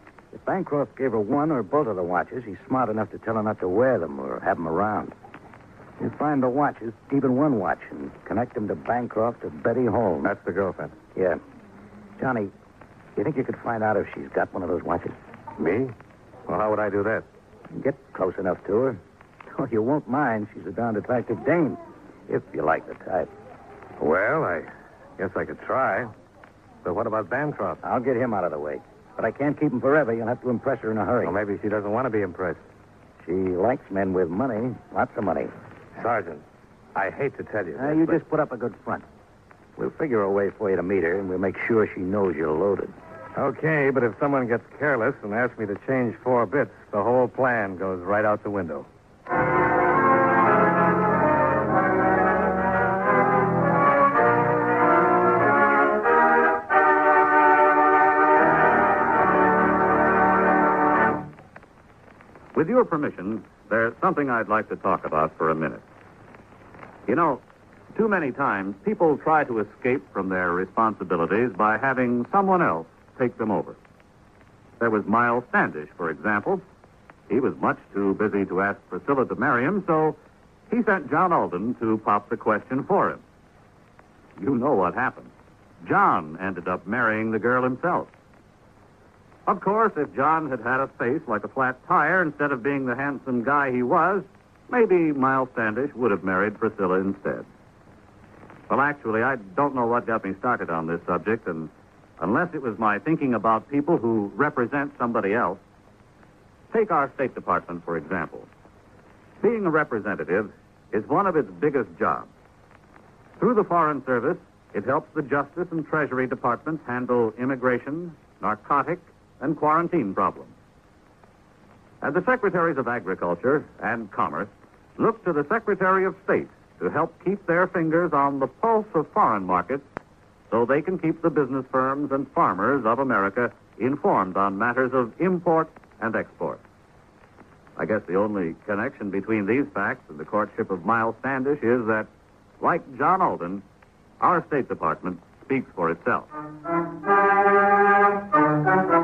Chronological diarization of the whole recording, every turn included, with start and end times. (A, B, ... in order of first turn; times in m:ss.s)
0:00.3-0:05.2 A
0:06.0-0:10.3 A
0:10.2-0:11.0 B
0:11.2-0:11.4 A
0:12.2-0:12.5 A
0:13.2-0:15.2 A
0:15.6-0:16.0 B
0:16.5-0:17.3 B
0:17.7-0:23.3 A
0:24.0-0:26.1 B
0:26.8-0:27.8 B
0:27.8-0:31.4 A
0:31.2-0:32.6 B
0:33.2-0:35.5 A
0:36.0-0:36.4 B
0:37.0-0:38.2 B
0:37.8-0:39.0 A
0:39.8-0:43.0 A
0:43.4-0:48.9 B
1:02.6-1:05.8 C
1:07.1-1:07.4 C
1:07.9-1:13.8 C
1:14.8-1:16.6 C
1:17.3-1:20.2 C
1:20.7-1:23.2 C
1:24.4-1:28.1 C
1:29.5-1:37.5 C
1:38.7-1:45.6 C
1:46.7-1:48.5 C
1:49.4-1:52.3 C
1:53.4-2:00.5 C
2:02.0-2:09.8 C
2:10.5-2:16.6 C
2:17.8-2:22.1 C
2:22.6-2:23.6 C
2:24.2-2:26.3 C